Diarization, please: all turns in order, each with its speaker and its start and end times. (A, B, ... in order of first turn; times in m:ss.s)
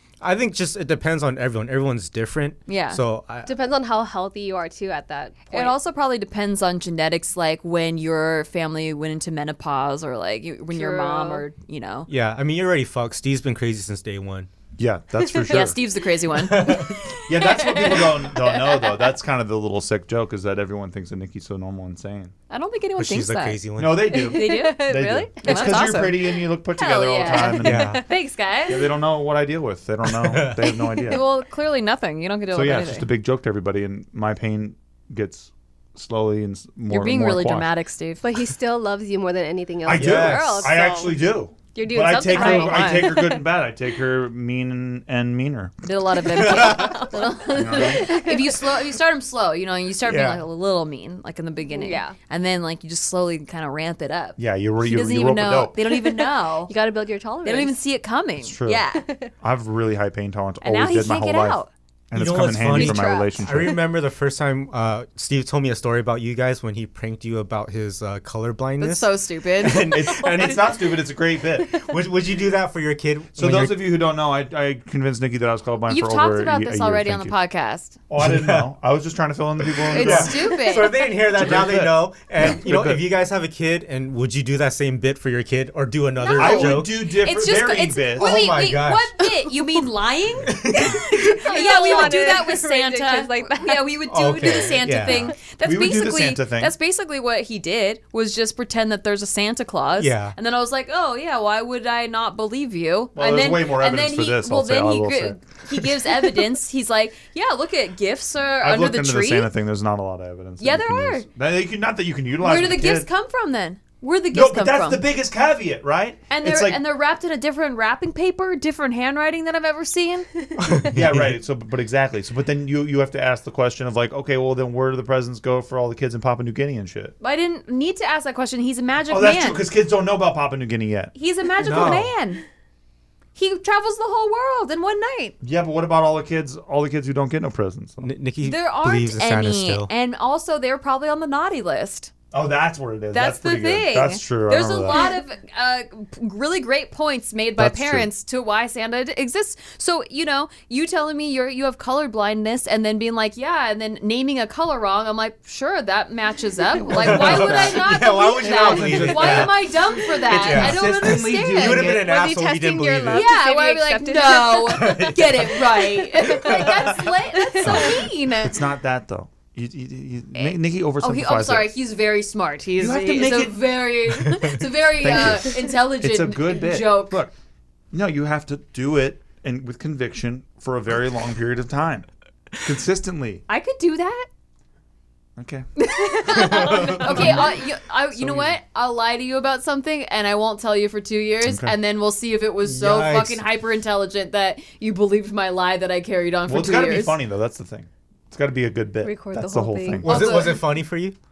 0:00.2-0:03.5 A
0:02.7-0:03.0 B
0:03.5-0:05.8 C
0:05.5-0:12.1 B
0:10.7-0:11.4 C
0:12.1-0:14.5 A
0:14.8-0:15.8 D
0:15.3-0:15.6 C
0:15.5-0:17.0 B
0:16.4-0:17.0 A
0:17.3-0:22.3 D
0:17.3-0:19.0 C
0:22.5-0:23.6 B
0:23.0-0:24.1 A
0:23.8-0:28.0 D
0:24.1-0:26.0 C
0:24.1-0:28.9 B
0:27.6-0:28.0 A
0:28.7-0:31.2 D
0:30.0-0:30.9 A
0:31.1-0:33.1 B
0:32.5-0:37.7 D
0:36.9-0:38.3 B
0:38.2-0:41.2 C
0:39.8-0:45.7 D
0:39.9-0:40.7 A
0:41.8-0:43.4 C
0:42.0-0:43.3 B
0:45.8-0:56.7 B
0:46.3-0:47.0 A
0:46.4-0:48.7 C
0:47.5-0:48.0 D
0:50.0-0:50.4 A
0:51.7-0:52.2 C
0:54.4-0:55.8 D
0:55.9-0:57.8 C
0:57.4-0:59.0 B
0:58.4-0:58.8 D
0:58.9-0:59.3 C
0:59.4-1:03.8 D
1:00.6-1:01.7 B
1:02.1-1:10.6 A
1:02.7-1:03.8 C
1:08.8-1:10.0 B
1:09.9-1:11.8 D
1:11.7-1:13.8 A
1:13.4-1:17.4 D
1:15.9-1:18.0 B
1:18.1-1:20.5 D
1:18.2-1:18.7 A
1:19.6-1:27.0 A
1:19.9-1:21.0 B
1:21.3-1:23.1 D
1:26.2-1:49.5 B
1:26.4-1:28.3 D
1:28.2-1:29.5 A
1:30.4-1:31.4 A
1:31.2-1:33.9 C
1:34.1-1:35.3 A
1:34.4-1:34.8 C
1:35.1-1:36.7 D
1:40.0-1:40.4 A
1:43.2-1:45.4 D
1:48.6-1:53.1 D
1:50.6-1:51.3 B
1:52.4-1:55.0 B
1:54.3-1:56.8 D
1:56.3-2:00.3 B
2:00.6-2:01.3 A
2:00.8-2:07.1 D
2:07.2-2:09.6 B
2:09.1-2:11.1 D
2:11.1-2:12.4 B
2:11.6-2:12.1 A
2:13.4-2:15.4 B
2:15.4-2:18.1 D
2:18.0-2:19.9 A
2:18.4-2:22.1 B
2:22.3-2:25.1 D
2:23.1-2:42.0 B
2:27.6-2:28.1 D
2:36.8-2:42.0 D
2:36.9-2:43.3 A
2:41.8-2:48.0 C
2:43.1-2:48.6 B
2:44.6-2:47.0 A
2:47.6-2:51.7 D
2:50.4-2:57.2 B
2:52.8-2:53.6 D
2:54.2-2:54.6 A
2:55.0-2:57.3 D
2:57.9-3:02.1 D
3:02.6-3:03.4 D
3:03.5-3:04.3 B
3:05.4-3:05.7 D
3:05.8-3:17.2 B
3:06.3-3:07.5 A
3:06.3-3:08.6 D
3:11.5-3:11.8 D
3:12.6-3:13.4 A
3:16.5-3:20.1 D
3:19.0-3:20.6 C
3:20.0-3:21.2 A
3:20.0-3:20.6 B